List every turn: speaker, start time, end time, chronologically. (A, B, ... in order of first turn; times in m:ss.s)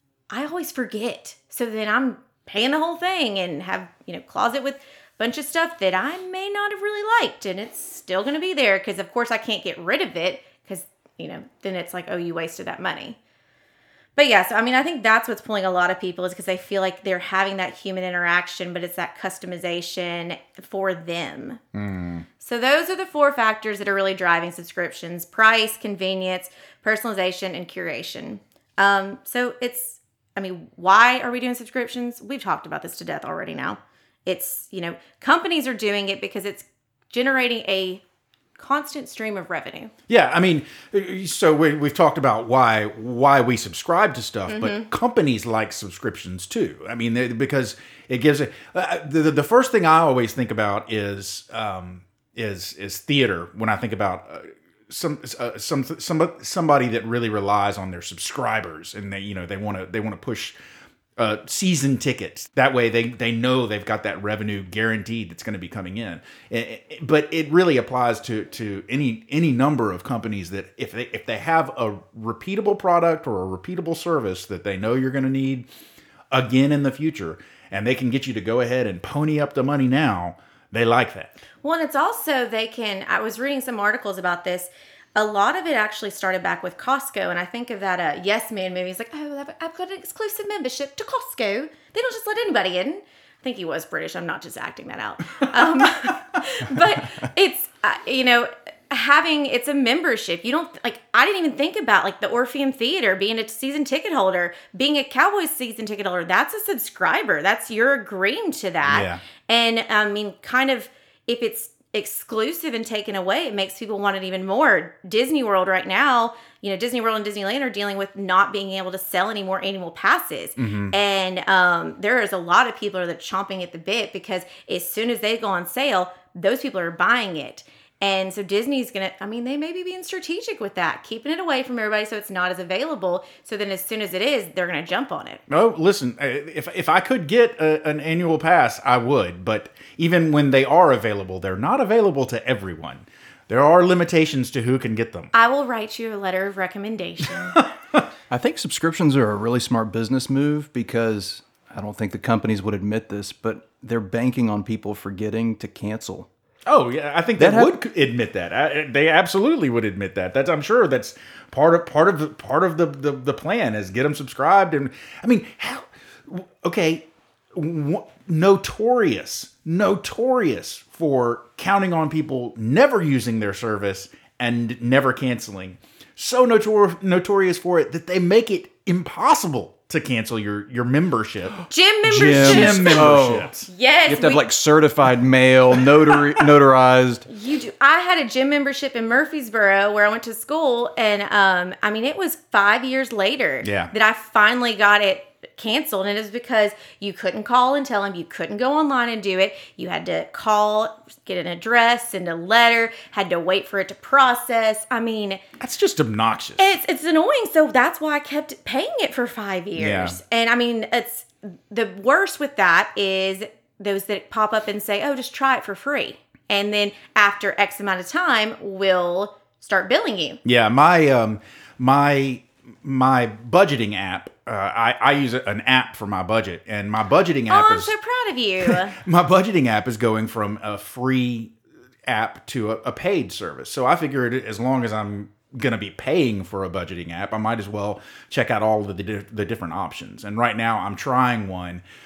0:00.3-0:13.2 A
0:14.2-0:21.6 A
0:21.7-0:22.2 B
0:22.4-0:38.0 A
0:38.6-0:39.9 A
0:40.1-1:00.6 B
0:44.5-0:44.9 A
1:01.2-1:15.6 B
1:16.3-1:21.4 B
1:21.6-2:15.4 A
1:35.6-1:36.1 B
1:48.8-1:49.2 B
2:00.6-2:00.9 B
2:15.5-2:25.3 B
2:25.3-2:27.6 A
2:27.6-2:28.1 B
2:28.3-2:36.3 C
2:36.6-3:03.7 B
2:37.4-2:37.7 C
3:01.7-3:04.4 A
3:02.0-3:03.5 C
3:04.1-3:07.3 C
3:07.3-3:25.4 A
3:13.6-3:13.9 B
3:25.6-3:26.7 B
3:26.6-3:40.4 A
3:29.7-3:30.2 B
3:40.4-3:47.9 B
3:47.5-3:49.0 A
3:48.6-3:51.5 B
3:52.0-4:01.8 B